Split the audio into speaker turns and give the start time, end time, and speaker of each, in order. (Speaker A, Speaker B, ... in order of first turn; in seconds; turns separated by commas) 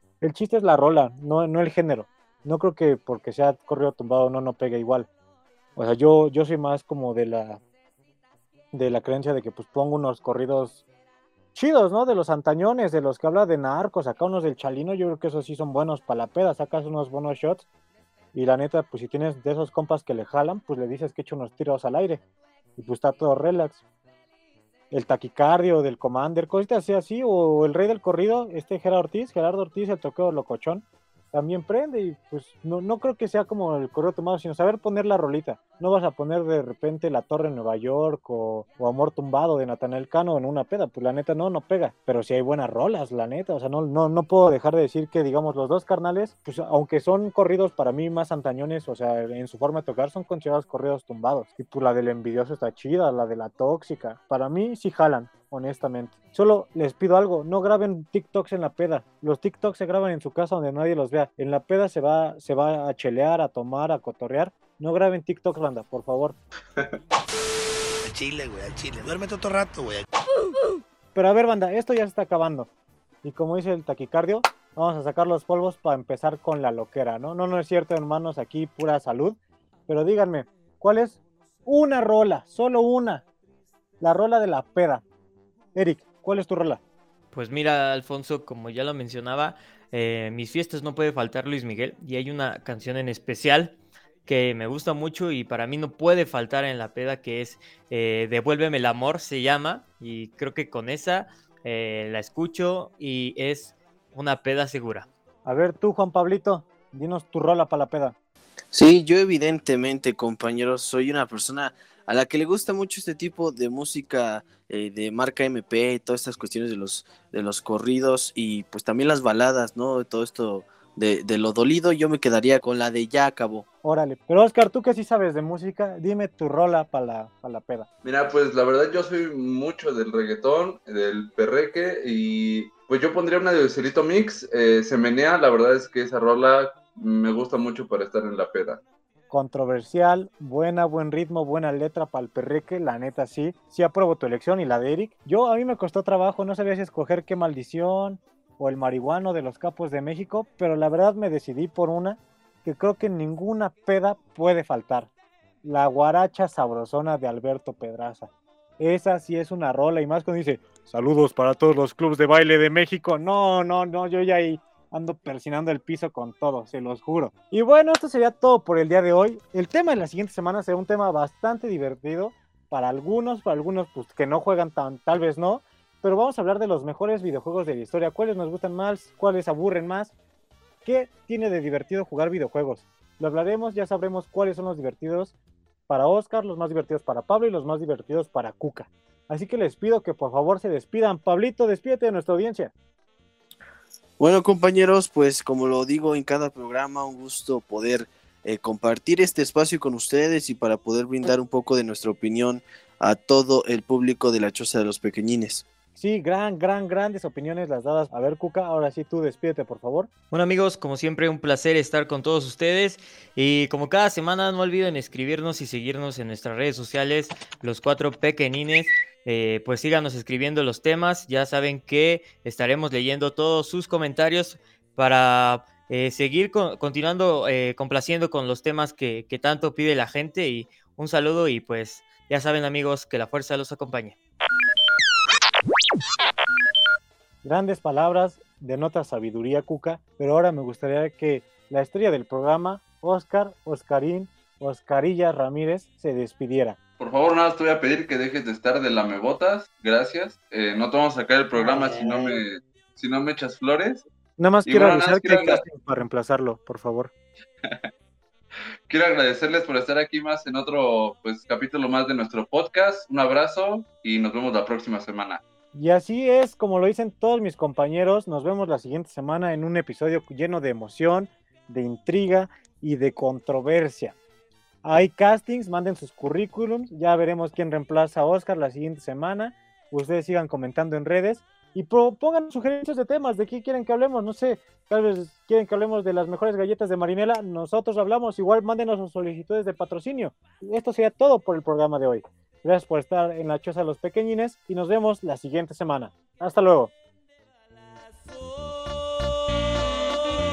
Speaker A: 0.2-5.1, Speaker A: 5.8-7.6, Speaker A: 8.7-10.8, Speaker A: 11.6-17.7, Speaker A: 18.3-22.2, Speaker A: 22.8-23.8, Speaker A: 24.9-66.4, Speaker B: 68.0-70.1, Speaker A: 71.2-72.7, Speaker A: 73.2-79.4, Speaker A: 79.9-83.2, Speaker A: 84.0-85.0, Speaker A: 85.8-86.8, Speaker C: 87.3-93.8, Speaker C: 94.3-105.1, Speaker A: 105.5-108.2, Speaker D: 108.7-123.7, Speaker A: 123.8-127.9, Speaker E: 128.0-138.8, Speaker A: 139.3-155.1, Speaker A: 155.6-180.1, Speaker A: 180.8-185.3, Speaker A: 185.9-192.7, Speaker D: 194.2-205.7, Speaker A: 206.0-210.1, Speaker C: 210.3-234.2, Speaker A: 237.4-246.8, Speaker E: 247.0-254.0, Speaker A: 251.6-252.4, Speaker A: 254.4-257.1, Speaker E: 254.7-255.6, Speaker E: 258.9-265.4, Speaker A: 265.7-274.2, Speaker A: 274.8-296.9, Speaker C: 298.3-299.4